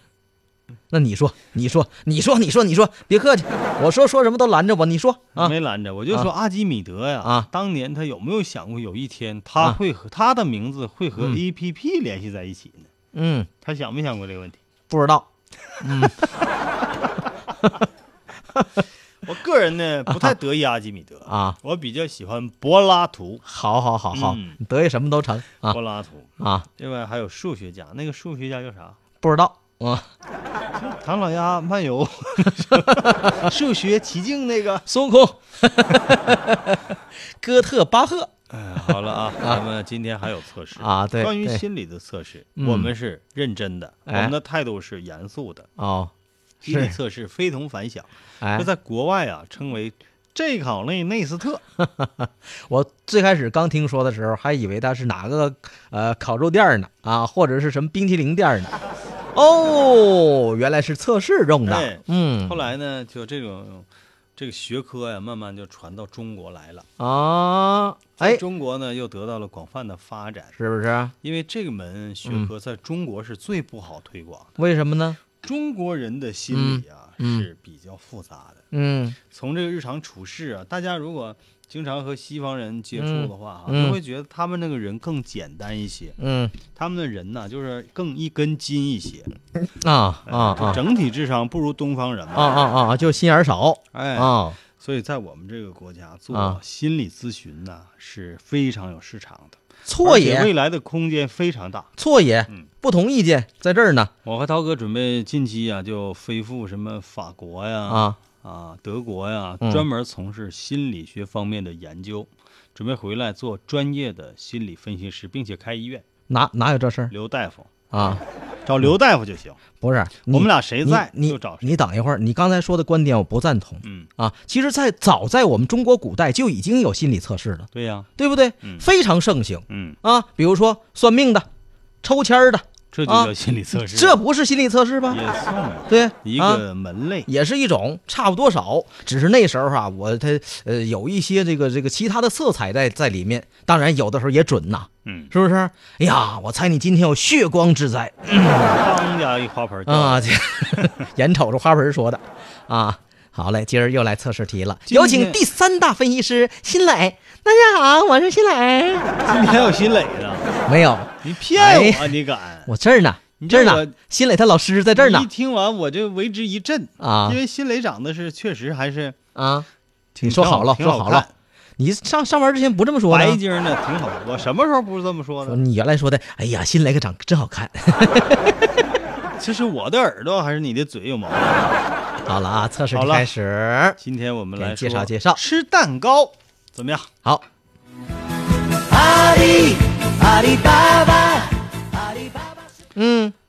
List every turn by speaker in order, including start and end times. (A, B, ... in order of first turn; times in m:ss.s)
0:00.9-0:05.6 A
0:05.4-0:12.9 B
0:07.2-0:07.5 A
0:13.1-0:13.5 A
0:13.6-0:14.6 B
0:14.9-0:15.3 A
0:15.8-0:16.3 A
0:19.2-0:23.4 B
0:21.3-0:21.6 A
0:23.4-0:25.8 A
0:24.1-0:24.6 B
0:25.6-0:29.0 B
0:26.4-0:26.7 A
0:29.2-0:30.1 A
0:30.8-0:34.9 B
0:32.6-0:33.4 A
0:34.9-0:38.3 A
0:38.5-0:45.7 B
0:38.8-0:39.6 A
0:40.8-0:41.6 A
0:42.6-0:42.9 A
0:44.1-0:44.3 A
0:45.8-0:46.1 A
0:46.6-0:51.6 B
0:46.7-0:47.0 A
0:48.4-0:48.7 A
0:51.8-0:58.8 A
0:59.3-1:02.6 A
1:01.7-1:06.9 B
1:07.0-1:08.4 A
1:08.2-1:10.6 B
1:10.6-1:11.1 A
1:11.2-1:14.6 B
1:12.2-1:12.5 A
1:14.6-1:15.2 A
1:15.4-1:18.6 B
1:16.5-1:17.5 A
1:18.7-1:19.2 A
1:19.3-1:26.2 B
1:23.0-1:24.0 A
1:26.2-1:26.6 A
1:26.7-1:29.3 B
1:29.8-1:30.8 A
1:30.3-1:32.6 B
1:32.4-1:34.6 A
1:33.9-1:41.9 B
1:36.3-1:36.6 A
1:39.9-1:40.5 A
1:42.0-1:44.1 A
1:44.2-1:56.0 B
1:47.9-1:48.2 A
1:56.3-1:57.1 A
1:57.1-1:59.6 B
1:57.9-1:58.2 A
1:59.8-2:11.5 A
2:00.3-2:01.8 B
2:03.8-2:04.1 B
2:07.7-2:08.1 B
2:08.6-2:08.9 B
2:09.7-2:10.0 B
2:12.0-2:15.2 A
2:12.9-2:14.2 B
2:15.1-2:17.3 B
2:15.9-2:16.6 A
2:17.3-2:28.8 A
2:25.0-2:25.3 B
2:28.5-2:31.0 B
2:29.9-2:39.2 A
2:34.9-2:35.4 B
2:39.2-2:40.5 B
2:40.6-2:42.2 A
2:41.2-2:42.7 B
2:42.7-2:45.3 A
2:43.4-2:44.0 B
2:44.9-2:49.2 B
2:47.0-2:47.4 A
2:49.4-2:49.7 A
2:50.2-2:51.3 B
2:50.2-2:51.2 A
2:51.8-2:53.4 A
2:53.1-2:55.6 B
2:55.5-2:58.7 A
2:59.4-3:01.8 B
3:02.3-3:04.0 A
3:02.9-3:03.3 B
3:04.0-3:07.1 B
3:04.6-3:05.4 A
3:08.9-3:11.5 C
3:13.0-3:13.4 A